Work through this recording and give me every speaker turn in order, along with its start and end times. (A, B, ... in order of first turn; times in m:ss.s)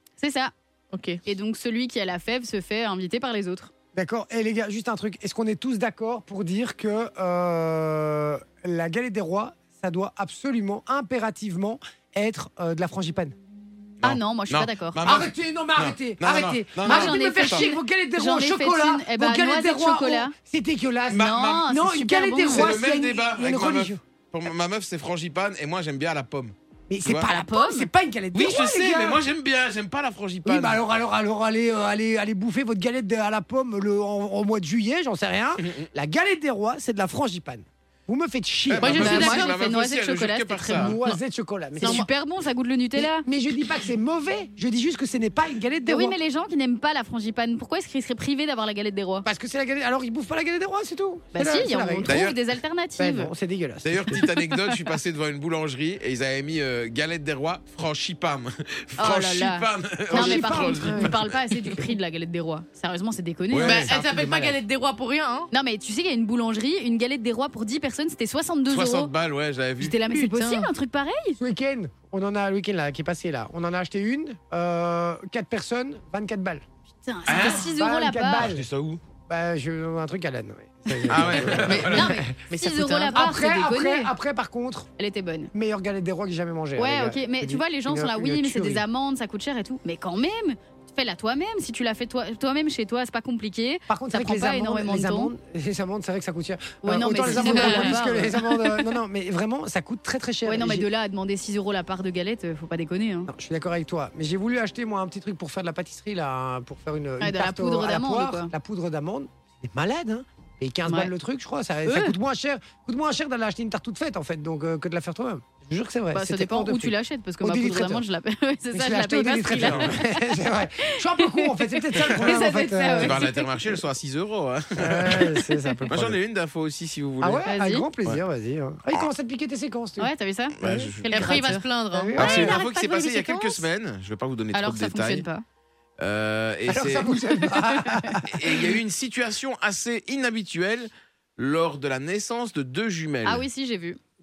0:00.2-0:00.5 A
0:00.9-0:01.2 B
0:01.2-0:03.7 A
0:03.9-0:13.3 C
0:14.0-0:17.7 D
0:14.0-0:15.0 A
0:15.0-0:24.0 C
0:16.8-0:20.3 A
0:21.1-0:21.6 D
0:21.1-0:22.7 A
0:22.4-0:27.3 D
0:26.9-0:29.2 C
0:27.2-0:27.9 A
0:28.3-0:30.8 D
0:30.4-0:39.4 C
0:38.7-0:41.0 D
0:38.8-0:39.6 B
0:38.8-0:40.9 A
0:40.7-0:42.0 C
0:41.8-0:42.1 B
0:41.8-0:43.3 A
0:43.0-0:46.1 C
0:45.9-0:49.3 A
0:49.2-0:52.2 C
0:51.3-0:53.3 A
0:52.0-0:52.4 D
0:53.0-0:54.2 C
0:53.8-1:01.4 D
0:54.4-0:54.7 A
0:59.0-1:03.9 A
1:00.1-1:01.2 C
1:03.5-1:04.0 D
1:03.6-1:05.5 B
1:03.6-1:04.6 C
1:05.5-1:09.1 A
1:08.7-1:10.0 D
1:09.8-1:11.4 A
1:10.1-1:10.7 B
1:11.4-1:16.6 C
1:17.0-1:18.6 A
1:17.3-1:17.6 D
1:17.3-1:17.7 B
1:17.5-1:18.6 C
1:18.3-1:19.0 D
1:19.3-1:22.3 C
1:21.1-1:22.2 D
1:21.6-1:23.4 B
1:22.0-1:24.1 A
1:23.1-1:24.9 C
1:25.0-1:25.5 A
1:25.5-1:28.8 C
1:26.8-1:35.3 A
1:33.9-1:40.9 C
1:36.8-1:38.9 A
1:37.3-1:38.1 B
1:40.4-1:43.3 A
1:43.3-1:58.0 C
1:47.2-1:48.5 A
1:50.8-1:51.1 A
1:51.8-1:52.2 A
1:56.1-2:03.5 A
1:58.7-2:03.3 C
1:59.6-2:00.0 D
2:03.0-2:05.4 D
2:04.8-2:06.2 C
2:05.3-2:05.8 A
2:05.9-2:07.4 D
2:07.2-2:10.1 C
2:07.4-2:07.9 A
2:10.0-2:11.6 A
2:10.6-2:11.3 D
2:10.6-2:10.9 C
2:11.0-2:12.4 B
2:11.9-2:12.6 C
2:12.2-2:15.3 D
2:12.2-2:13.6 A
2:14.5-2:15.4 A
2:16.0-2:17.2 D
2:16.7-2:18.6 C
2:17.7-2:18.1 A
2:18.3-2:23.4 D
2:23.2-2:24.0 A